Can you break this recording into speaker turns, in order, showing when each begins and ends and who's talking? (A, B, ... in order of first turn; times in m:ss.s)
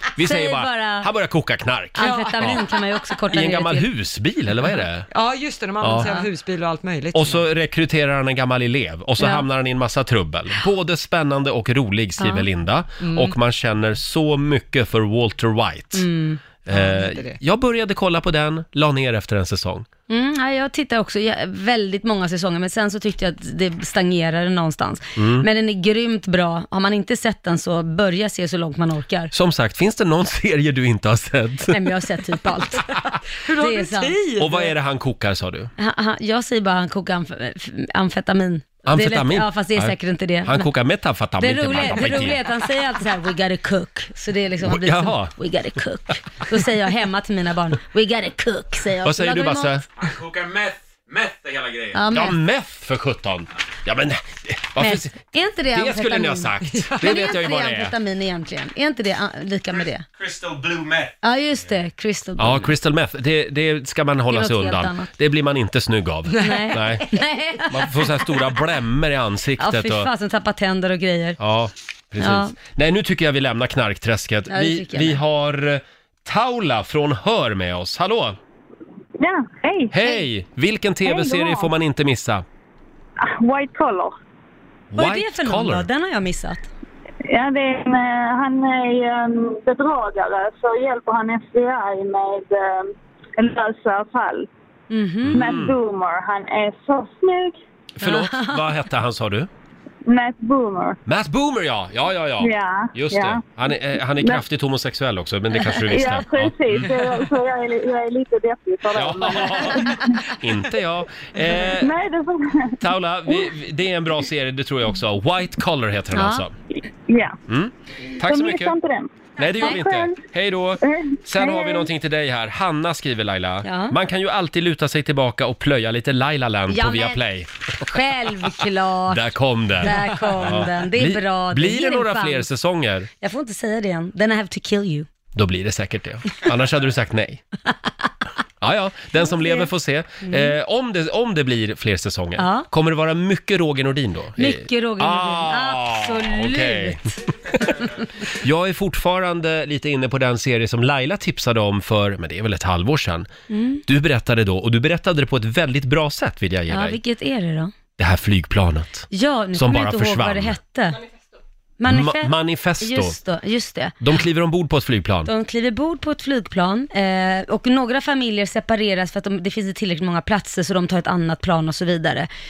0:00.2-0:02.6 A
0:00.2-0:01.1 B
0:02.0-0:03.9 B
0:02.0-0:02.8 C
0:03.3-0:05.1 A
0:05.1-0:07.5 C
0:05.8-0:06.1 A
0:07.1-0:16.0 A
0:09.2-0:09.5 B
0:12.2-0:12.5 B
0:13.0-0:13.4 C
0:16.0-0:16.4 B
0:16.7-0:19.9 A
0:16.7-0:17.4 C
0:20.1-0:29.3 B
0:25.2-0:25.5 A
0:29.3-0:31.8 A
0:31.7-0:33.0 B
0:33.4-0:34.7 C
0:33.6-0:34.2 B
0:34.4-0:35.7 A
0:35.8-0:40.7 B
0:38.9-0:42.4 A
0:41.4-0:49.7 B
0:44.6-0:45.3 A
0:49.0-0:49.8 A
0:50.0-0:52.0 D
0:51.9-0:52.4 B
0:52.1-0:55.2 A
0:54.8-1:00.0 B
0:55.7-0:57.9 A
0:56.7-0:57.2 C
1:00.1-1:01.2 D
1:01.2-1:02.7 B
1:02.4-1:07.1 A
1:04.3-1:05.1 B
1:06.3-1:06.8 C
1:06.4-1:08.2 B
1:07.7-1:10.1 A
1:09.6-1:11.4 B
1:11.4-1:18.4 A
1:12.2-1:12.5 B
1:14.5-1:15.2 B
1:19.2-1:20.0 E
1:19.9-1:22.4 A
1:21.0-1:21.7 E
1:23.2-1:24.1 E
1:24.9-1:25.9 A
1:25.0-1:26.7 B
1:27.3-1:34.5 E
1:34.9-1:35.6 B
1:35.2-1:35.8 A
1:35.3-1:37.6 E
1:38.0-1:39.5 A
1:38.0-1:38.6 B
1:40.1-1:41.0 E
1:41.1-1:46.9 A
1:42.4-1:43.4 E
1:45.9-1:50.2 E
1:48.9-1:51.9 A
1:51.7-1:52.8 E
1:52.8-1:56.5 A
1:56.1-1:56.4 B
1:57.1-1:57.4 E
1:57.5-1:58.7 A
1:58.2-2:00.2 E
1:59.4-2:07.5 A
2:00.8-2:01.9 E
2:03.6-2:04.0 B
2:06.7-2:07.2 B
2:07.8-2:12.5 B
2:09.1-2:13.1 A
2:13.2-2:15.1 B
2:15.4-2:17.4 A
2:18.6-2:27.1 A
2:19.2-2:19.7 B
2:20.3-2:20.5 B
2:22.4-2:22.7 B
2:24.4-2:27.1 B
2:28.4-2:33.3 A
2:33.5-2:33.8 B
2:33.9-2:37.0 A
2:36.7-2:37.7 B
2:38.0-2:40.6 A
2:39.1-2:41.0 B
2:41.8-2:44.0 B
2:41.9-2:43.2 A
2:44.0-2:45.3 A
2:45.3-2:52.3 B